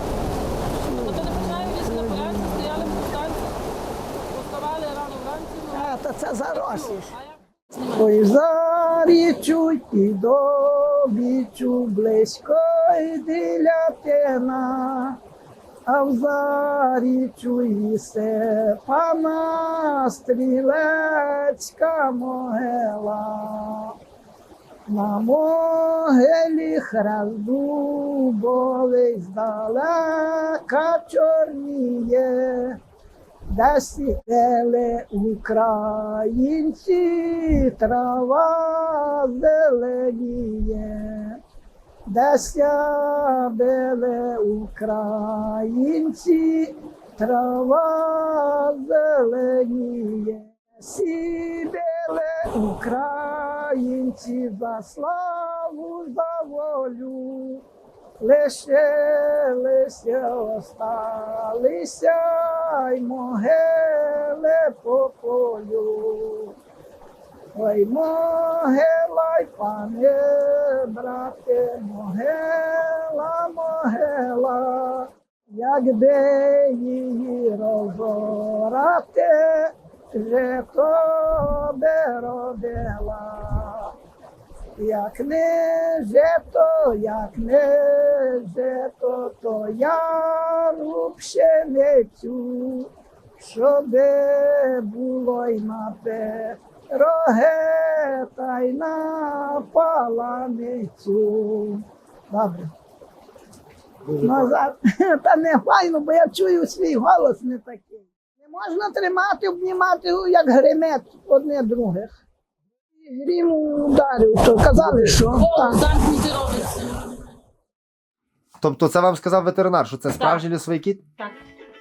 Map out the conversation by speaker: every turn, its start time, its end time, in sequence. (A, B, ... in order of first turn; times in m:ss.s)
0:00.8-0:03.0 A
0:00.8-0:03.5 B
0:04.2-0:05.9 B
0:05.7-0:07.1 A
0:06.5-0:08.1 B
0:07.9-0:15.2 A
0:15.9-0:24.0 A
0:24.9-0:32.8 A
0:33.5-0:41.4 A
0:42.1-0:57.6 A
0:58.2-1:06.6 A
1:07.6-1:23.9 A
1:24.8-1:42.7 A
1:44.0-1:44.5 C
1:44.1-1:52.2 A
1:53.0-1:55.8 A
1:54.9-1:57.0 B
1:58.6-2:01.0 C
2:00.1-2:00.4 B